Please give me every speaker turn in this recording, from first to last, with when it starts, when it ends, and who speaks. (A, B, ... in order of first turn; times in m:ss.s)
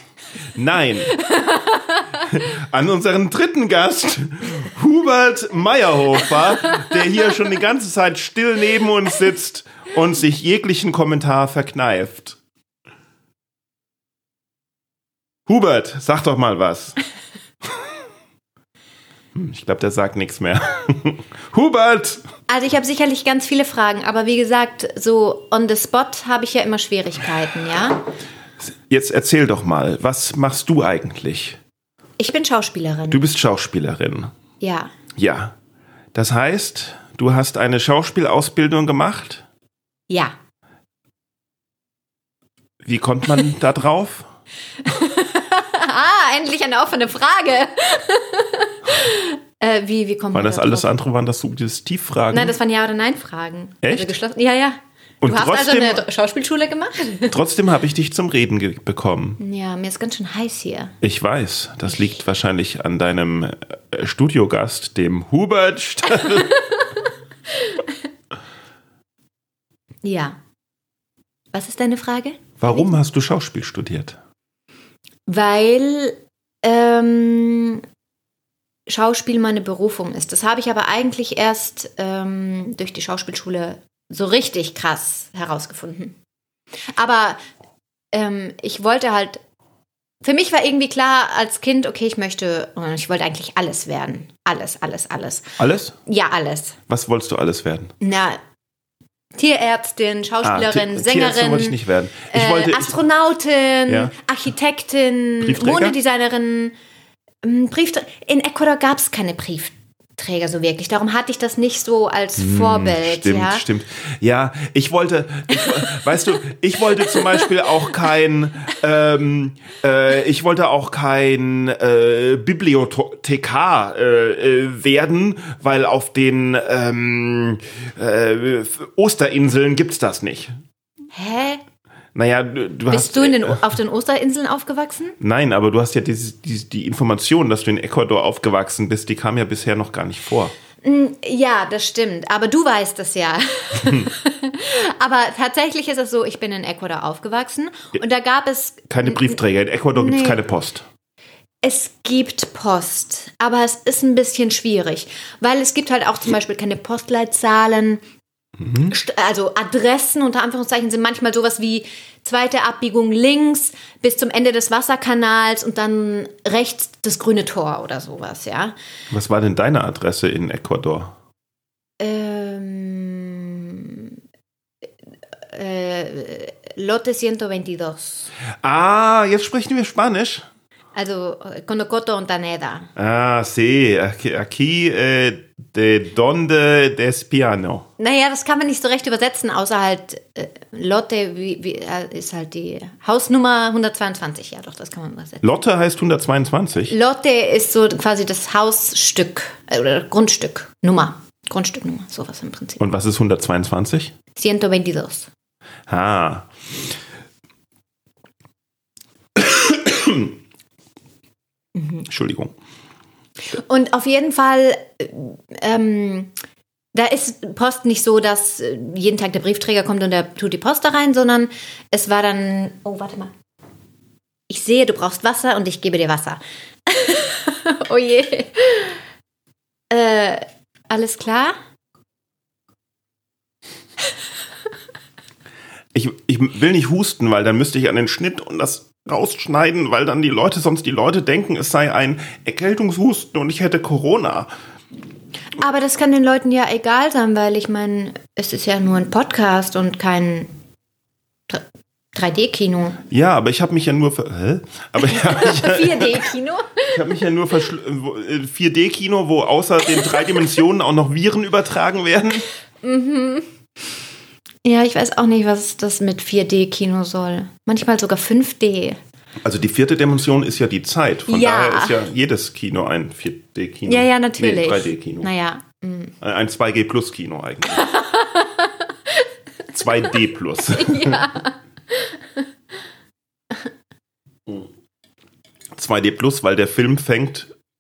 0:00.6-0:01.1 A
0:01.1-0:02.2 B
0:02.3-0:12.4 A
0:15.5-0:17.0 A
0:19.3-0:22.2 A
0:22.5-0:28.1 B
0:28.6-0:31.6 A
0:32.2-0:33.2 B
0:33.1-0:34.3 A
0:34.6-0:34.9 B
0:35.2-0:35.5 A
0:36.1-0:39.4 A
0:40.1-0:40.4 B
0:42.8-0:44.3 A
0:44.8-0:50.9 B
0:50.3-0:52.6 A
0:52.3-0:57.4 B
0:53.8-0:54.2 A
0:55.2-0:56.0 A
0:57.3-0:59.4 A
0:59.4-1:01.0 B
1:01.0-1:06.6 A
1:06.4-1:06.9 B
1:07.5-1:07.8 B
1:10.0-1:10.4 B
1:11.5-1:12.8 B
1:12.6-1:14.2 A
1:15.3-1:17.8 B
1:18.9-1:26.2 B
1:26.9-1:27.4 B
1:28.1-1:29.4 B
1:30.2-1:36.8 B
1:35.6-1:36.0 A
1:36.9-1:37.9 A
1:38.0-1:38.4 B
1:39.4-1:41.8 B
1:40.4-1:42.9 A
1:42.3-1:46.7 B
1:43.9-1:44.1 A
1:45.4-1:46.0 A
1:47.4-1:53.6 B
1:52.4-2:10.5 A
2:11.1-2:11.6 B
2:12.2-2:13.6 A
2:12.9-2:15.2 B
2:15.2-2:20.5 A
2:20.8-2:29.4 B
2:28.9-2:30.8 A
2:30.0-2:30.4 B
2:31.6-2:38.0 B
2:38.6-2:38.9 A
2:38.8-2:48.8 B
2:49.1-2:51.1 A
2:52.0-2:54.1 B
2:55.5-2:58.3 B
2:58.6-3:00.5 A
3:01.0-3:02.9 B
3:03.0-3:07.9 A
3:08.0-3:15.4 B
3:15.4-3:16.9 A
3:16.9-3:22.8 B
3:22.8-3:24.1 A
3:24.4-3:25.3 B
3:25.9-3:26.5 A
3:29.4-3:30.4 A
3:31.8-3:32.0 B
3:32.0-3:32.5 A
3:33.5-3:36.3 B
3:36.9-3:43.3 B
3:44.5-3:49.0 B
3:49.9-3:51.6 B
3:55.9-4:04.5 A
4:05.6-4:10.5 B
4:12.1-4:13.0 B
4:13.1-4:16.3 A
4:15.0-4:17.2 B
4:16.9-4:22.5 A
4:22.8-4:23.5 B
4:24.6-4:29.0 B
4:29.4-4:35.3 A
4:31.3-4:32.0 B
4:33.9-4:36.1 B
4:36.2-4:37.9 A
4:37.8-4:39.2 B
4:39.7-4:41.3 A
4:40.7-4:42.4 B
4:45.8-4:47.5 A